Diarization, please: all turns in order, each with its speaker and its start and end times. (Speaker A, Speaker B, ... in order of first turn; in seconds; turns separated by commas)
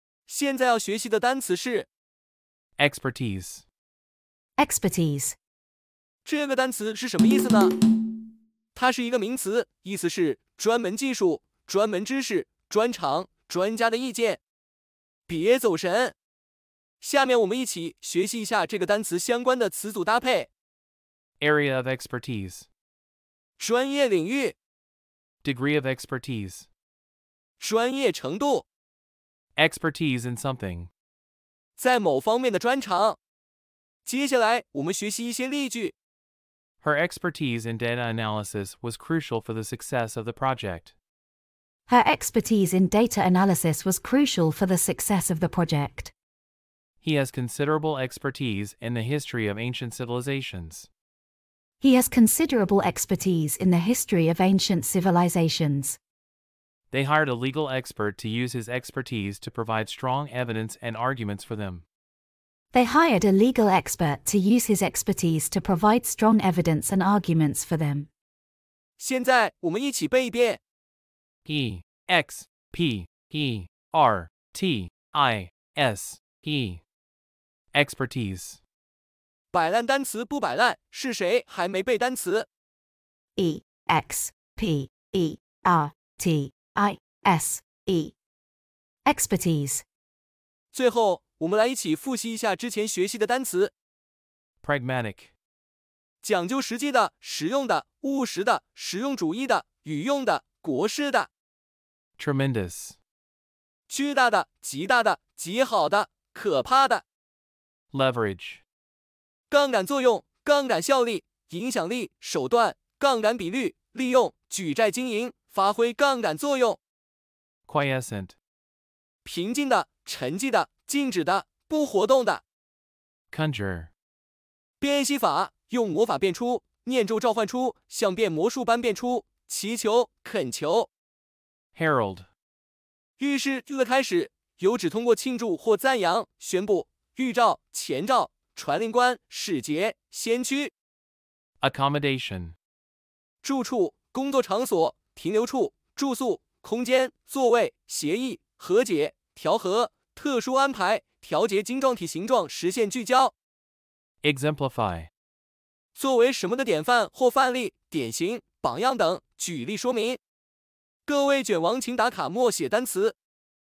Speaker A: 0.3-1.9, Speaker B: 2.8-3.6, Speaker C: 4.6-5.4, Speaker A: 6.2-7.8, Speaker A: 8.8-14.4, Speaker A: 15.3-16.1, Speaker A: 17.0-20.5, Speaker B: 21.4-22.7, Speaker A: 23.6-24.6, Speaker B: 25.4-26.7, Speaker A: 27.6-28.7, Speaker B: 29.6-30.9, Speaker A: 31.8-33.2, Speaker A: 34.0-36.0, Speaker B: 36.8-41.0, Speaker C: 41.9-46.1, Speaker B: 47.0-50.9, Speaker C: 51.8-56.0, Speaker B: 56.9-61.8, Speaker C: 62.7-68.1, Speaker A: 69.0-70.6, Speaker B: 71.5-76.8, Speaker B: 77.7-78.6, Speaker A: 79.5-82.5, Speaker C: 83.4-88.2, Speaker C: 89.0-89.8, Speaker A: 90.7-93.7, Speaker B: 94.6-95.3, Speaker A: 96.2-101.3, Speaker B: 102.2-103.0, Speaker A: 103.9-107.0, Speaker B: 107.9-108.6, Speaker A: 109.5-116.8, Speaker B: 117.7-118.4, Speaker A: 119.2-122.4, Speaker B: 123.3-123.9, Speaker A: 124.8-130.9, Speaker B: 131.8-132.3, Speaker A: 133.2-140.7, Speaker B: 141.6-142.5, Speaker A: 143.4-153.3, Speaker B: 154.2-155.1, Speaker A: 156.0-160.2, Speaker A: 161.1-163.2